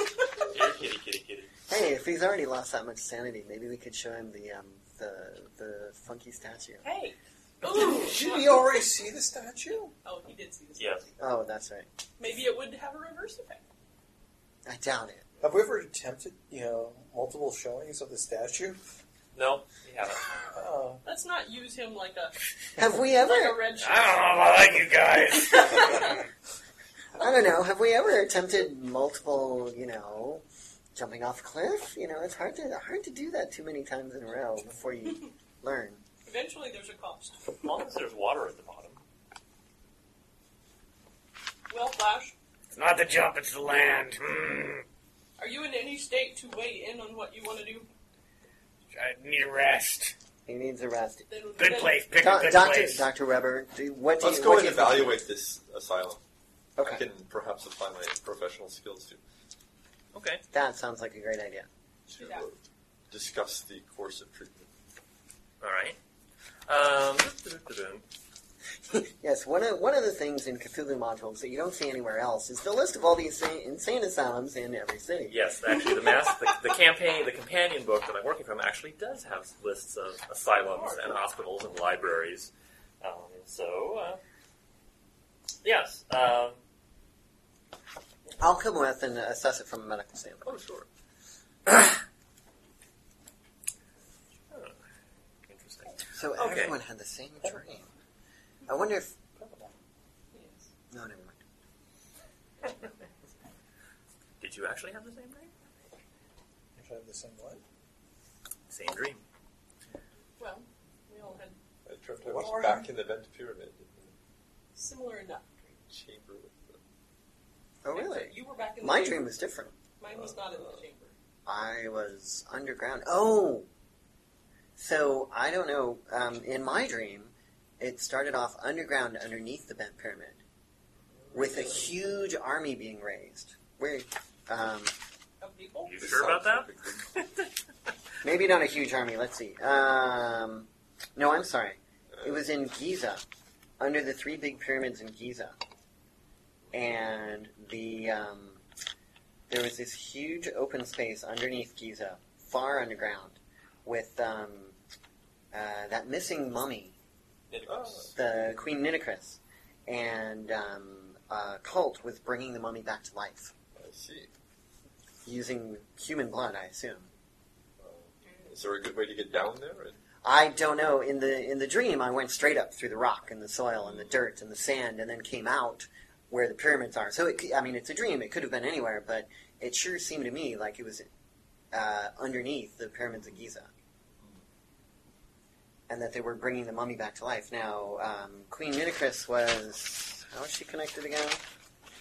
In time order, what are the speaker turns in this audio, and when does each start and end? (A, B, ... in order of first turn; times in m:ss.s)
0:00.5-0:01.5 A
0:01.7-0:06.8 B
0:06.8-0:08.9 C
0:07.6-0:09.9 D
0:10.0-0:11.1 C
0:10.8-0:11.1 A
0:11.2-0:11.9 B
0:12.2-0:13.6 C
0:14.6-0:15.3 B
0:15.4-0:18.8 D
0:19.3-0:20.3 A
0:20.5-0:21.0 D
0:21.0-0:22.4 C
0:22.8-0:23.6 B
0:23.0-0:24.3 C
0:23.8-0:26.3 E
0:25.3-0:26.2 C
0:27.2-0:30.4 B
0:31.0-0:36.0 B
0:35.1-0:35.3 C
0:36.2-0:37.7 C
0:37.6-0:39.0 A
0:41.7-0:42.4 C
0:42.7-0:44.9 E
0:45.4-0:47.9 C
0:48.9-0:50.2 E
0:50.5-0:51.3 B
0:51.3-0:52.2 C
0:51.6-0:53.0 E
0:52.2-0:55.2 B
0:54.2-0:56.2 F
0:56.8-0:57.0 B
0:56.8-0:59.2 F
1:00.1-1:00.4 A
1:00.5-1:01.7 B
1:02.1-1:02.5 C
1:02.1-1:02.6 F
1:03.1-1:04.7 F
1:05.6-1:06.0 A
1:06.7-1:08.0 A
1:08.9-1:15.4 B
1:15.3-1:22.5 A
1:20.6-1:21.2 C
1:23.0-1:24.2 A
1:25.6-1:26.6 A
1:28.4-1:30.6 B
1:30.4-1:30.9 A
1:34.5-1:34.8 A
1:35.5-1:36.8 A
1:36.1-1:37.9 B
1:38.7-1:39.2 B
1:39.4-1:39.7 D
1:40.3-1:40.7 C
1:40.9-1:41.4 B
1:44.4-1:45.6 A
1:46.8-1:47.6 D
1:48.7-1:49.2 A
1:50.4-1:51.6 C
1:51.9-1:54.1 F
1:52.2-1:52.9 D
1:54.8-1:55.8 C
1:55.9-1:56.8 F
1:57.8-1:59.8 B
1:57.9-1:59.3 C
2:00.0-2:01.2 C
2:00.1-2:00.8 F
2:01.5-2:03.7 B
2:04.8-2:10.4 B
2:11.3-2:11.9 F
2:11.3-2:14.9 B
2:15.4-2:16.0 C
2:15.8-2:16.7 A
2:16.0-2:17.0 F
2:18.2-2:23.2 B
2:23.8-2:25.6 B
2:26.7-2:28.6 B
2:29.5-2:34.8 B
2:35.5-2:37.0 B
2:37.5-2:38.2 A
2:37.6-2:38.2 F
2:38.2-2:43.5 B
2:43.8-2:44.3 F
2:45.2-2:47.1 B
2:47.8-2:50.0 F
2:48.2-2:48.5 C
2:50.2-3:01.1 B
2:53.8-2:54.1 F
3:01.7-3:03.7 B
3:05.9-3:11.4 B